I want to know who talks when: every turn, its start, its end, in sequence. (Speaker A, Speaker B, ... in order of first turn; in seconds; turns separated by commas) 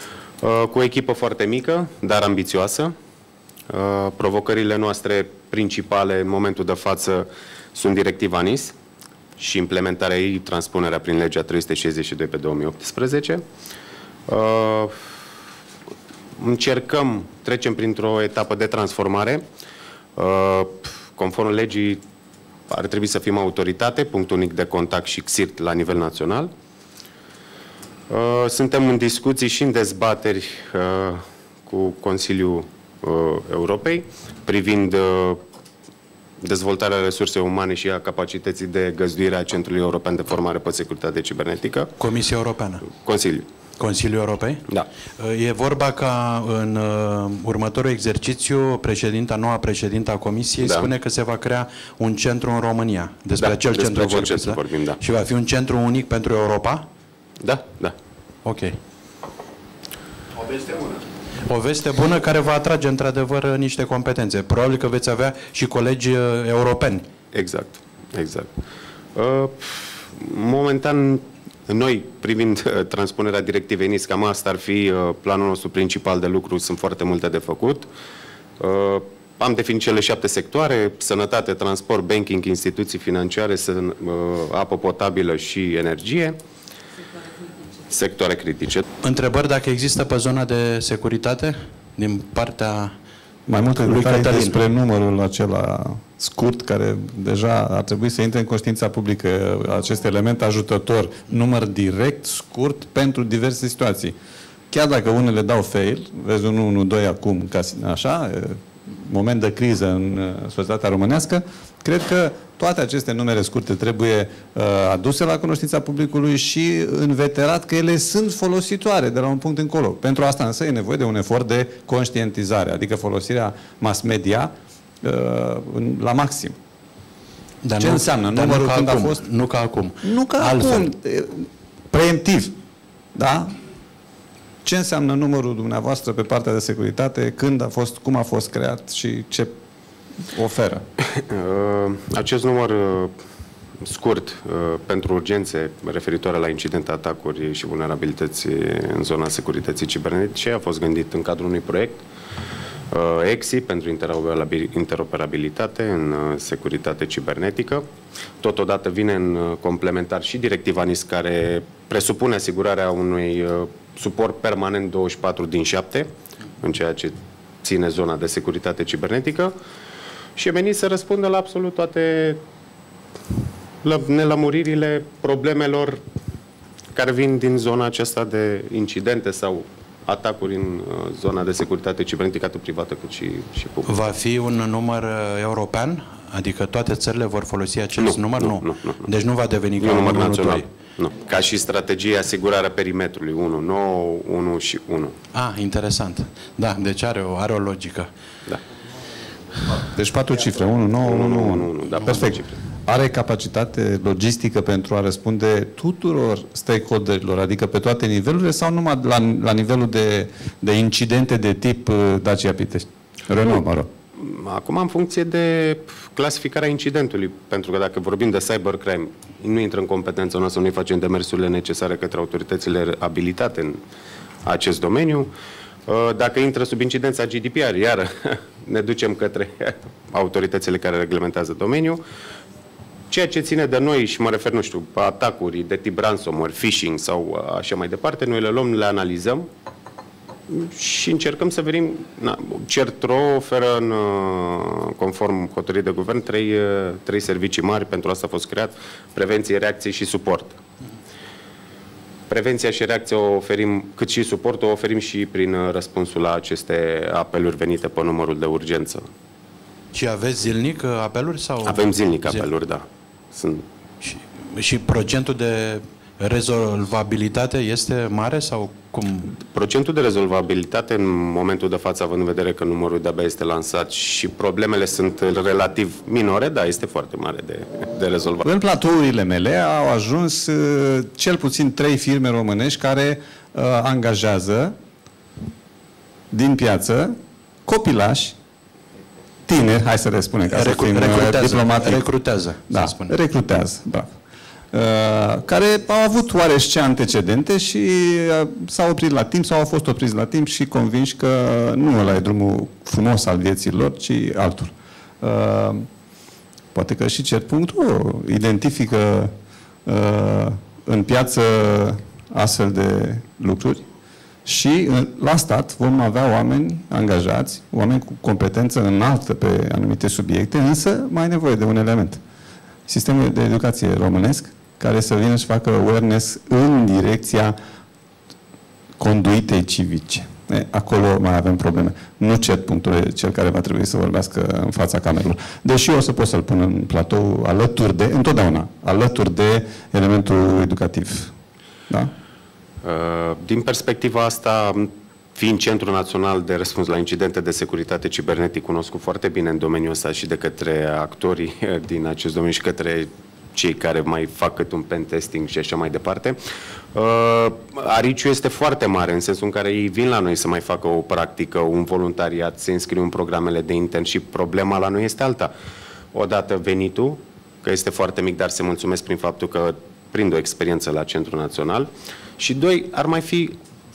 Speaker A: 0.4-2.9, Speaker A: 3.7-8.7, Speaker A: 9.4-13.4, Speaker A: 14.3-14.9, Speaker A: 16.4-19.4, Speaker A: 20.2-22.0, Speaker A: 22.7-26.5, Speaker A: 28.1-35.4, Speaker A: 36.4-41.9, Speaker B: 42.0-42.9, Speaker A: 42.9-43.5, Speaker B: 43.8-44.6, Speaker B: 45.2-56.9, Speaker A: 50.6-50.9, Speaker A: 53.4-55.0, Speaker A: 57.4-57.9, Speaker B: 58.4-58.8, Speaker B: 61.5-67.1, Speaker A: 67.3-68.5, Speaker A: 69.2-77.9, Speaker A: 78.6-86.4, Speaker A: 87.9-88.8, Speaker B: 89.0-92.9, Speaker C: 93.5-104.1, Speaker B: 93.8-94.6, Speaker C: 104.7-126.5, Speaker B: 127.6-130.8, Speaker C: 127.8-129.2, Speaker C: 130.0-132.5, Speaker C: 133.1-133.5, Speaker C: 134.6-139.5, Speaker C: 140.3-140.8, Speaker A: 141.3-143.1, Speaker A: 143.8-152.0, Speaker A: 152.9-157.8, Speaker A: 158.4-166.1, Speaker A: 166.6-169.5, Speaker A: 170.4-172.4, Speaker A: 173.8-176.0, Speaker A: 176.9-183.9, Speaker B: 183.8-190.7, Speaker A: 187.9-189.0, Speaker A: 189.8-195.1, Speaker B: 195.3-198.1, Speaker C: 199.8-213.9, Speaker A: 201.0-202.5, Speaker A: 214.2-223.8, Speaker A: 224.4-225.3, Speaker A: 225.9-232.0, Speaker A: 233.1-239.5, Speaker A: 240.5-250.6, Speaker A: 252.3-259.1, Speaker B: 259.9-262.4, Speaker A: 261.6-263.6, Speaker B: 264.0-269.3, Speaker A: 269.5-278.4, Speaker C: 278.4-284.7, Speaker C: 286.3-287.1, Speaker C: 287.6-288.4, Speaker C: 289.5-292.1, Speaker B: 290.5-293.1, Speaker C: 292.7-294.1, Speaker C: 294.7-305.9, Speaker C: 306.7-309.3, Speaker C: 309.9-313.8, Speaker C: 314.4-322.2, Speaker C: 322.9-327.5, Speaker C: 329.0-341.3, Speaker A: 342.8-356.4, Speaker A: 356.9-365.5, Speaker A: 366.1-373.5